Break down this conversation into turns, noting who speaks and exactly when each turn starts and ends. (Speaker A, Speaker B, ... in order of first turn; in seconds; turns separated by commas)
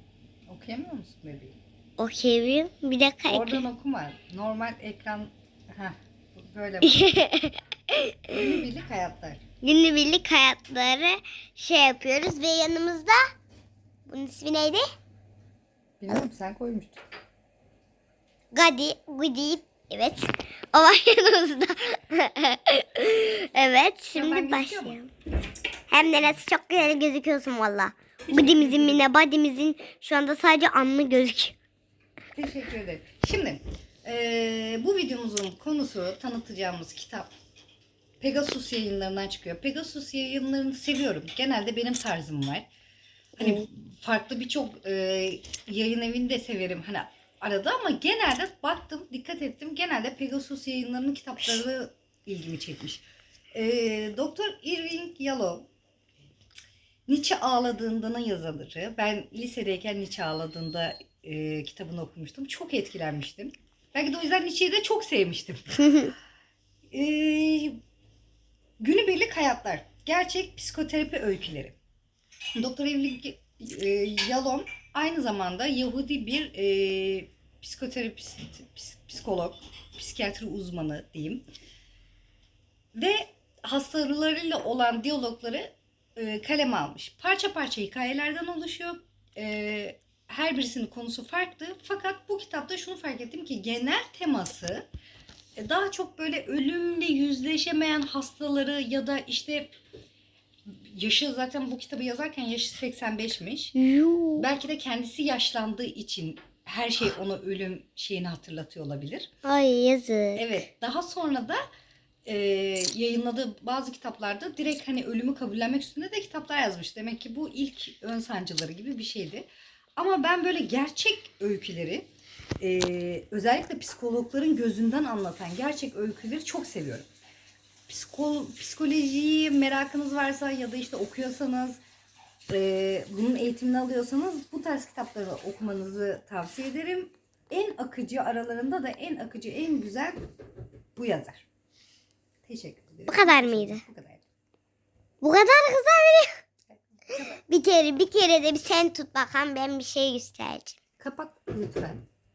Speaker A: 0.5-1.6, Speaker B: 2.0-3.6, Speaker A: 3.3-7.0, Speaker B: 6.8-8.4, Speaker A: 8.3-9.4, Speaker B: 9.6-13.2, Speaker B: 14.1-14.8, Speaker A: 16.0-17.0, Speaker B: 18.5-25.1, Speaker A: 24.1-25.0, Speaker B: 25.9-31.6, Speaker A: 28.3-29.1, Speaker A: 32.3-37.3, Speaker A: 38.2-42.7, Speaker A: 43.4-55.6, Speaker A: 57.1-66.1, Speaker B: 65.8-66.1, Speaker A: 66.9-67.8, Speaker A: 68.8-71.8, Speaker A: 72.5-81.4, Speaker A: 82.9-94.8, Speaker A: 95.6-99.7, Speaker A: 100.7-103.7, Speaker B: 103.8-104.5, Speaker A: 104.4-109.3, Speaker B: 109.4-110.5, Speaker A: 110.3-111.6, Speaker A: 112.2-122.1, Speaker A: 122.6-127.1, Speaker A: 127.9-131.8, Speaker A: 132.5-140.2, Speaker A: 140.9-141.4, Speaker A: 142.4-144.2, Speaker B: 143.1-143.8, Speaker B: 145.2-146.3, Speaker A: 146.7-147.4, Speaker B: 147.5-150.8, Speaker A: 151.0-152.0